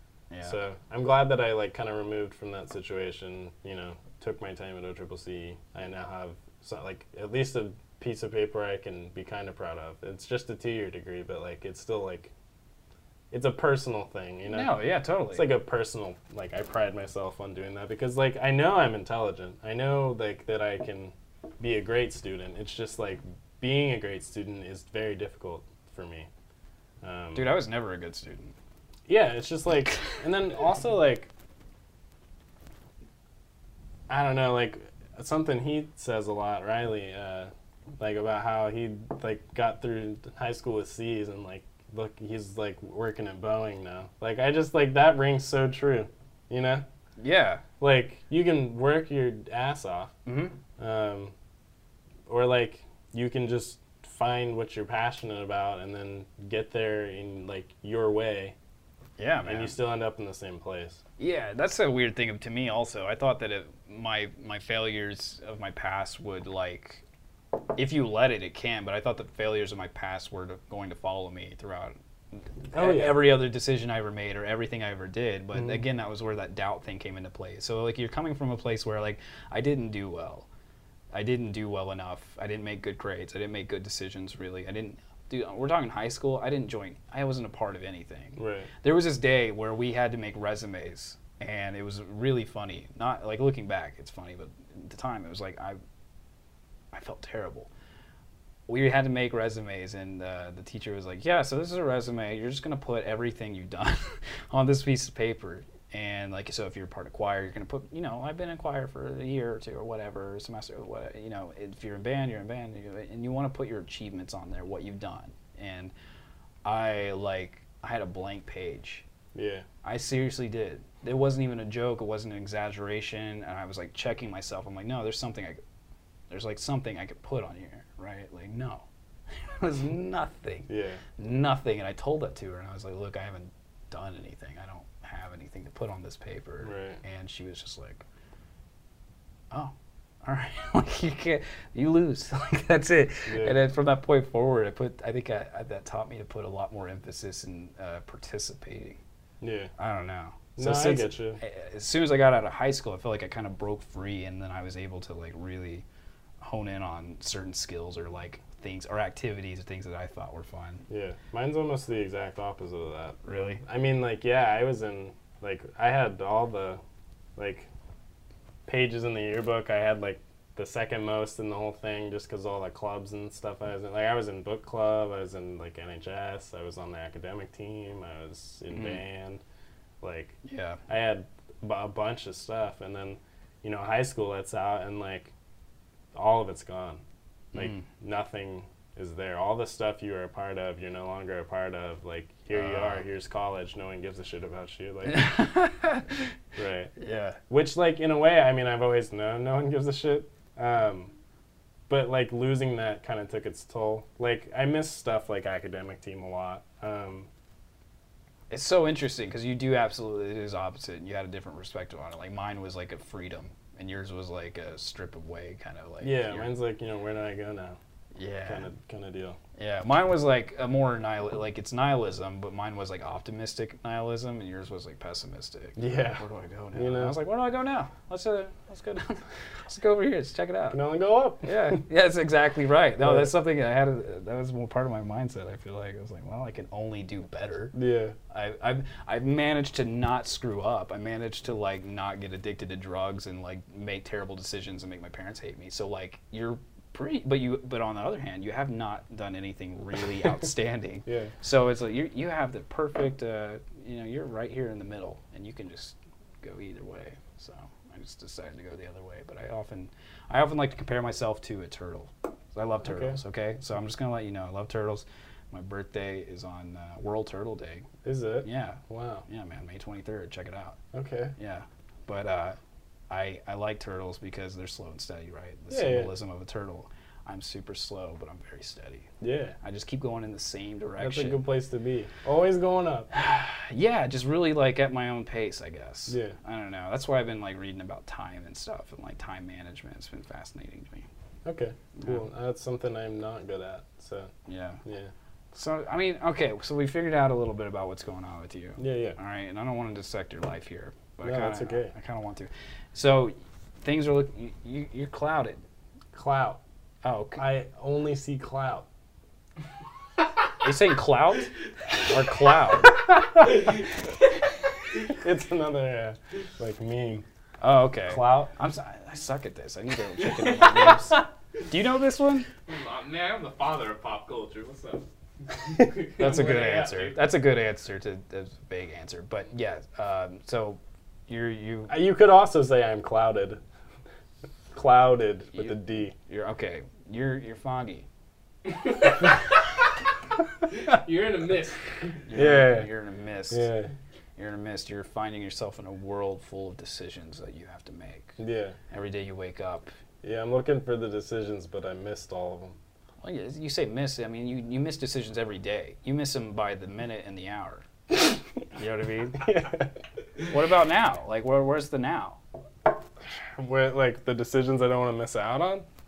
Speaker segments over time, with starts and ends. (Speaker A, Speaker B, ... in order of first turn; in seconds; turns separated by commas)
Speaker A: 0.3-0.6, Speaker B: 0.4-12.3, Speaker B: 13.3-14.8, Speaker A: 14.5-15.5, Speaker B: 15.3-26.3, Speaker B: 27.0-27.5, Speaker A: 27.3-28.5, Speaker B: 29.1-31.3, Speaker B: 34.1-46.8, Speaker A: 47.2-47.6, Speaker B: 47.8-50.1, Speaker A: 50.2-50.5, Speaker B: 50.8-51.3, Speaker B: 52.3-58.5, Speaker A: 59.2-59.7, Speaker B: 59.5-61.0, Speaker A: 61.2-67.0, Speaker A: 67.8-80.5, Speaker B: 72.7-73.2, Speaker B: 75.5-75.8, Speaker A: 81.1-95.8, Speaker B: 88.4-88.7, Speaker A: 96.9-97.7, Speaker A: 98.7-115.9, Speaker A: 116.6-119.0, Speaker B: 119.3-119.7, Speaker A: 119.8-125.6, Speaker A: 126.3-128.8, Speaker A: 129.4-138.0, Speaker B: 130.7-131.0, Speaker B: 136.6-137.0, Speaker A: 140.2-149.0, Speaker B: 143.3-143.6, Speaker B: 149.4-149.7, Speaker A: 149.8-155.8, Speaker B: 150.6-151.4, Speaker A: 156.4-160.8, Speaker B: 160.9-166.8, Speaker A: 163.2-163.6, Speaker B: 167.4-167.7, Speaker B: 168.7-179.4, Speaker A: 178.7-179.0, Speaker B: 180.0-180.3, Speaker A: 180.4-180.8, Speaker B: 180.9-185.3, Speaker B: 186.1-187.0, Speaker A: 187.5-187.9, Speaker B: 187.5-195.3, Speaker A: 192.5-193.0, Speaker A: 195.1-196.3, Speaker B: 196.6-196.9, Speaker A: 197.0-197.4, Speaker B: 197.5-201.1, Speaker B: 201.9-207.3, Speaker A: 208.5-216.5, Speaker B: 216.0-217.8, Speaker A: 218.1-218.7, Speaker B: 218.5-219.4, Speaker A: 219.6-230.8, Speaker B: 225.8-227.1, Speaker B: 230.7-231.8, Speaker A: 231.4-237.7, Speaker B: 233.0-233.3, Speaker B: 237.7-238.1, Speaker A: 238.3-267.9, Speaker B: 251.1-251.3, Speaker B: 262.8-263.2, Speaker B: 268.0-269.2, Speaker A: 268.4-270.8, Speaker B: 270.9-271.3, Speaker A: 271.4-272.6, Speaker A: 273.1-279.1, Speaker B: 275.7-276.1, Speaker B: 279.2-279.6, Speaker A: 279.6-281.4, Speaker B: 281.0-283.1, Speaker A: 283.1-291.1, Speaker B: 286.1-286.3, Speaker B: 291.4-294.3, Speaker A: 291.9-292.2, Speaker A: 294.5-294.8, Speaker B: 294.8-295.1, Speaker A: 295.5-305.6, Speaker B: 298.8-299.2, Speaker B: 301.2-301.9, Speaker B: 306.1-306.6, Speaker A: 307.0-307.4, Speaker B: 307.4-308.9, Speaker A: 310.6-313.1, Speaker B: 315.0-317.2, Speaker A: 317.6-322.5, Speaker B: 318.1-318.5, Speaker C: 320.5-320.9, Speaker C: 322.6-327.2, Speaker A: 326.2-331.9, Speaker B: 331.9-333.6, Speaker B: 334.7-336.1, Speaker A: 335.5-338.1, Speaker C: 338.7-339.6, Speaker C: 340.7-342.2, Speaker A: 342.2-343.7, Speaker B: 342.3-342.9, Speaker B: 343.5-343.9, Speaker A: 344.4-348.4, Speaker B: 348.4-348.8, Speaker A: 348.9-349.9, Speaker B: 350.2-352.8, Speaker A: 353.2-357.9, Speaker A: 358.7-359.5, Speaker B: 359.4-359.9, Speaker A: 360.5-362.4, Speaker B: 363.6-365.9